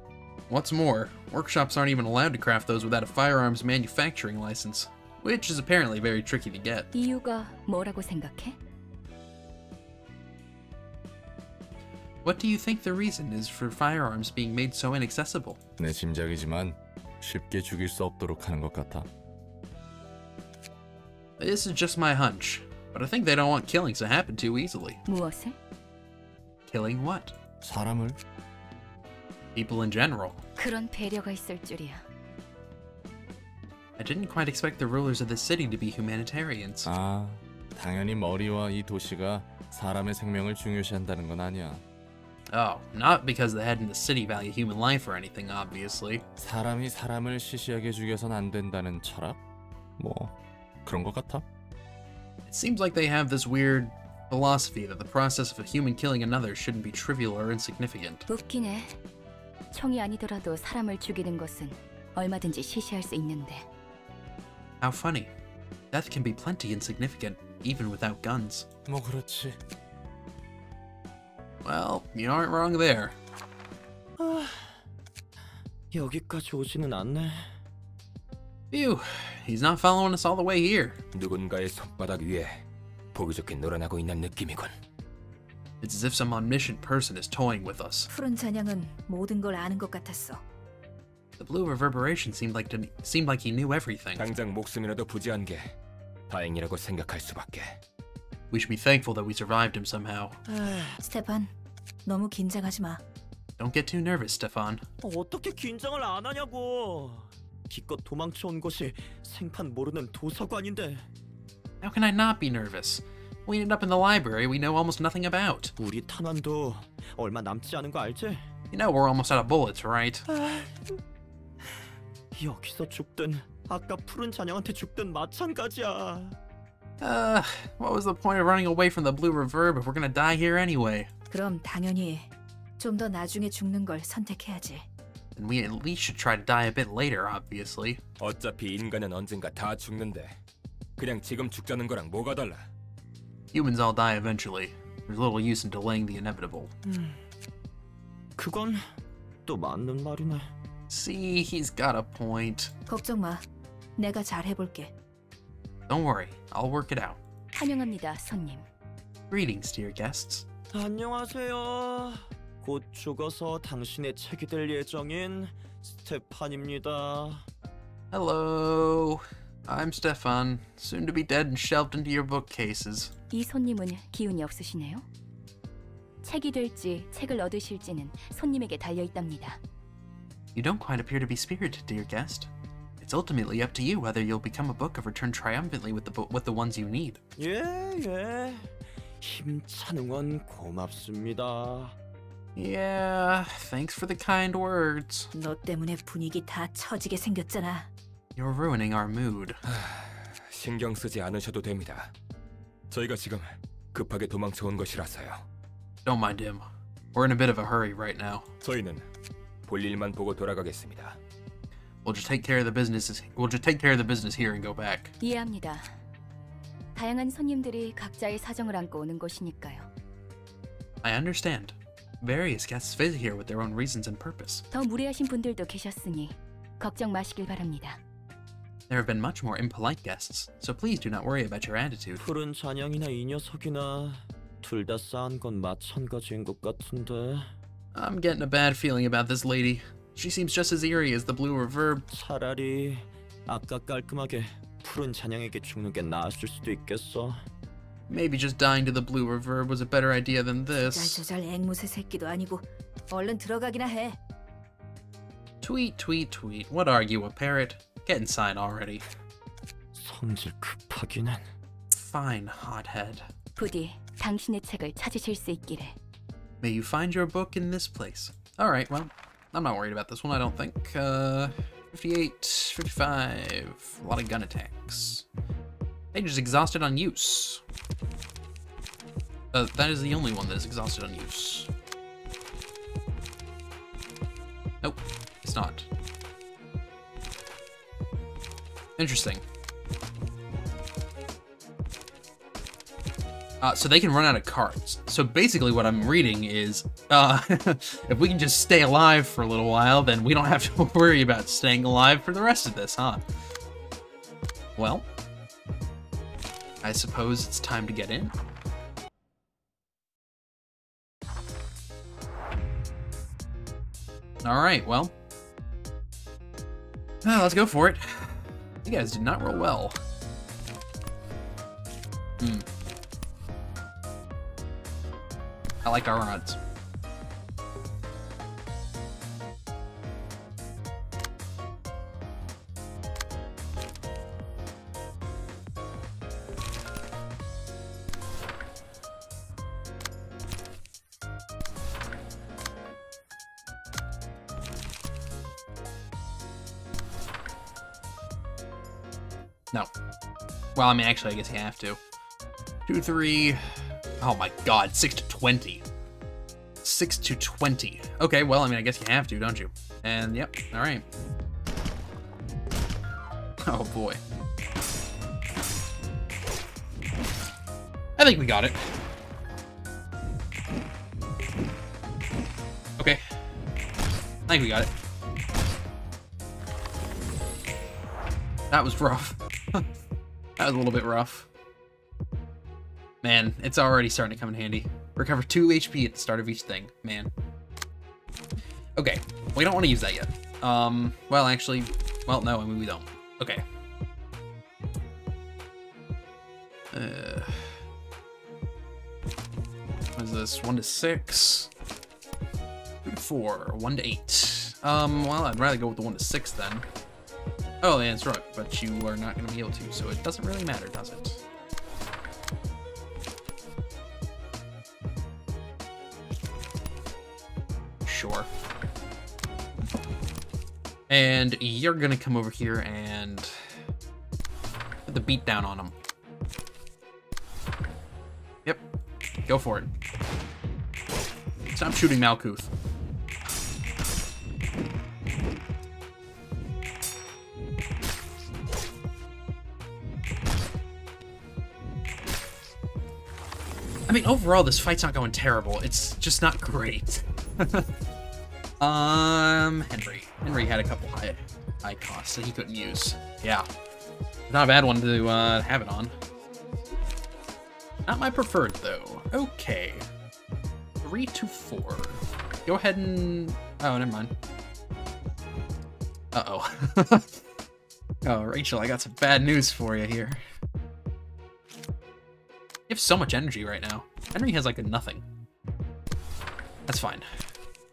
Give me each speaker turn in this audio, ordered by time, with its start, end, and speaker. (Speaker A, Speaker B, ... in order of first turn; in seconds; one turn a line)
Speaker A: 0.5-6.9
Speaker B: 6.9-8.6
Speaker A: 12.2-15.6
Speaker C: 15.8-19.1
Speaker A: 21.4-25.0
Speaker B: 25.1-25.5
Speaker A: 26.7-27.3
Speaker C: 27.6-28.2
Speaker A: 29.5-30.4
Speaker B: 30.6-32.0
Speaker A: 34.0-36.9
Speaker C: 36.8-41.8
Speaker A: 42.5-46.2
Speaker C: 46.4-49.4
Speaker C: 50.0-50.3
Speaker C: 50.8-51.4
Speaker A: 52.5-58.2
Speaker B: 58.3-59.0
Speaker B: 59.7-63.6
Speaker A: 64.8-65.3
Speaker A: 65.9-68.7
Speaker C: 68.9-69.6
Speaker A: 71.6-73.2
Speaker D: 74.2-74.8
Speaker D: 75.9-77.6
Speaker A: 78.7-81.0
Speaker E: 81.1-84.7
Speaker A: 85.8-88.1
Speaker F: 88.1-90.4
Speaker A: 91.4-94.2
Speaker E: 94.2-95.7
Speaker E: 96.3-97.8
Speaker A: 98.5-100.4
Speaker D: 100.5-101.0
Speaker F: 101.0-101.5
Speaker F: 102.0-103.0
Speaker A: 103.6-104.8
Speaker D: 105.0-111.0
Speaker A: 111.8-115.7
Speaker D: 115.8-118.4
Speaker A: 118.7-120.2
Speaker D: 120.3-121.0
Speaker D: 122.3-126.4
Speaker A: 127.0-131.1
Speaker F: 131.3-134.9
Speaker A: 135.3-138.0
Speaker E: 138.2-140.3
Speaker E: 141.0-142.6
Speaker A: 143.5-146.7
Speaker D: 146.9-147.2
Speaker D: 148.4-148.8
Speaker D: 149.4-150.5
Speaker A: 150.9-152.7
Speaker F: 152.9-153.4
Speaker F: 154.0-154.9
Speaker A: 155.9-157.2
Speaker B: 157.6-158.7
Speaker A: 159.3-160.4
Speaker D: 160.7-167.4
Speaker A: 168.1-173.1
Speaker B: 173.3-175.0
Speaker B: 176.2-179.6
Speaker A: 180.5-187.2
Speaker D: 187.4-191.9
Speaker A: 192.6-195.3
Speaker F: 195.3-197.9
Speaker A: 198.3-199.6
Speaker E: 199.7-202.1
Speaker E: 202.9-205.4
Speaker A: 206.0-208.5
Speaker E: 208.6-209.0
Speaker E: 209.7-211.2
Speaker A: 212.0-215.1
Speaker B: 215.2-215.9
Speaker B: 216.9-219.9
Speaker A: 221.0-224.6
Speaker B: 224.7-228.0
Speaker A: 228.9-232.2
Speaker D: 232.2-237.5
Speaker A: 237.9-242.0
Speaker D: 242.1-247.4
Speaker A: 248.1-251.2
Speaker F: 250.8-254.2
Speaker A: 255.6-259.0
Speaker D: 259.9-261.4
Speaker A: 261.9-263.3
Speaker B: 263.6-265.9
Speaker A: 266.6-275.2
Speaker A: 276.1-277.6
Speaker A: 279.5-281.7
Speaker A: 284.8-285.9
Speaker A: 289.0-289.4
Speaker A: 293.6-303.2
Speaker A: 304.8-305.1
Speaker A: 306.8-308.3
Speaker A: 314.4-315.1
Speaker A: 317.2-320.0
Speaker A: 322.4-322.6
Speaker A: 325.8-326.6
Speaker A: 350.7-352.0
Speaker A: 352.9-353.6
Speaker A: 354.2-355.8
Speaker A: 356.8-361.0
Speaker A: 363.6-364.2
Speaker A: 368.2-368.8
Speaker A: 374.5-374.9
Speaker A: 378.7-379.8
Speaker A: 380.6-381.5
Speaker A: 383.2-387.3
Speaker A: 388.9-393.6
Speaker A: 396.9-397.8
Speaker A: 400.1-401.7
Speaker A: 403.0-406.9
Speaker A: 407.8-411.4
Speaker A: 418.1-418.5
Speaker A: 421.1-423.7
Speaker A: 425.1-425.9
Speaker A: 429.4-429.9
Speaker A: 431.7-432.7
Speaker A: 444.1-447.9
Speaker A: 448.8-453.7
Speaker A: 454.5-456.1
Speaker A: 458.1-460.0
Speaker A: 461.0-464.3
Speaker A: 466.3-467.4
Speaker A: 468.2-470.4
Speaker A: 472.9-475.2
Speaker A: 476.9-477.3